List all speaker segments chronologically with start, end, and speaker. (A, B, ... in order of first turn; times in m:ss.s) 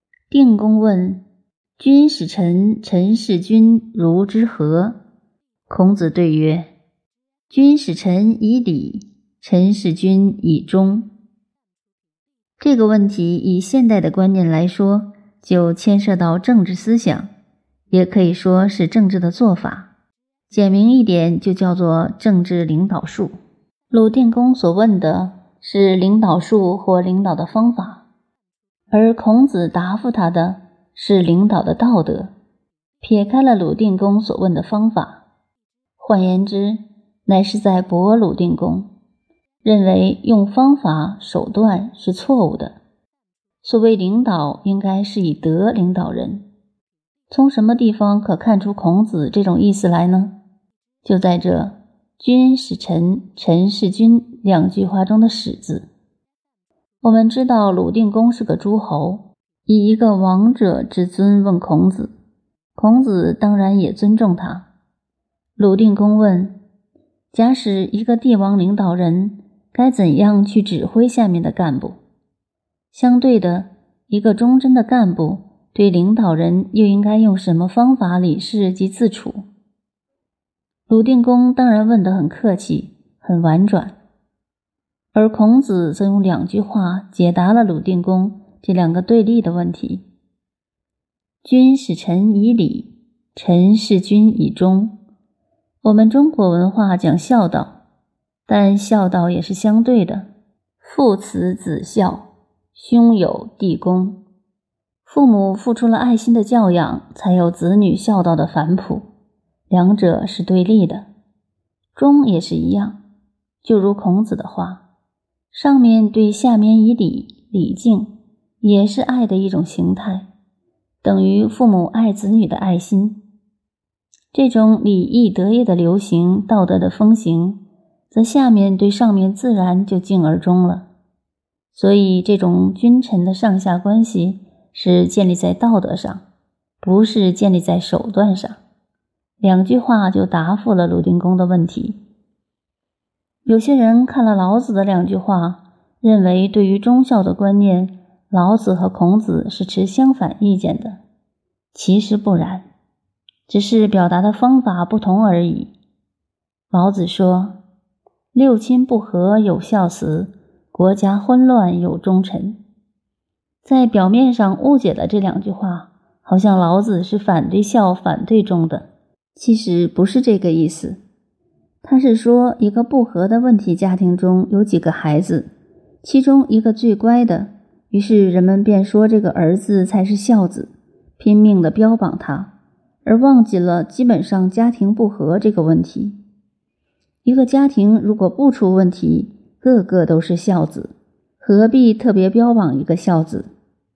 0:00.3-0:01.2 A
0:01.8-0:05.0 A
0:05.7-0:06.7 A
0:07.5-0:11.1 A
0:12.6-0:17.3 A
0:17.9-0:19.9 A
0:20.5-0:23.4 A
0:23.9-0:28.0 A
0:28.9-0:32.3 A
0:33.0-0:35.2 A
0:36.0-0:38.9 A
0:39.6-0:42.8 A
0:43.6-0:46.5 A
0:47.3-0:50.4 A
0:51.0-0:55.9 A
0:57.0-1:02.1 A
1:02.8-1:04.7 A
1:05.6-1:06.6 A
1:07.3-1:12.0 A
1:12.9-1:19.4 A
1:20.9-1:24.0 A
1:25.1-1:30.0 A
1:31.4-1:35.0 A
1:35.8-1:37.8 A
1:38.5-1:40.3 A
1:40.8-1:44.2 A
1:45.0-1:49.1 A
1:49.7-1:51.1 A
1:52.0-1:53.0 A
1:53.6-1:54.8 A
1:55.5-2:00.3 A
2:01.0-2:03.2 A
2:04.3-2:10.9 A
2:11.7-2:16.2 A
2:16.8-2:18.6 A
2:19.4-2:22.0 A
2:23.4-2:31.0 A
2:31.7-2:32.7 A
2:33.5-2:35.7 A
2:36.7-2:37.6 A
2:38.3-2:42.6 A
2:43.6-2:51.0 A
2:51.8-2:55.5 A
2:56.0-3:02.5 A
3:03.0-3:06.2 A
3:07.2-3:13.5 A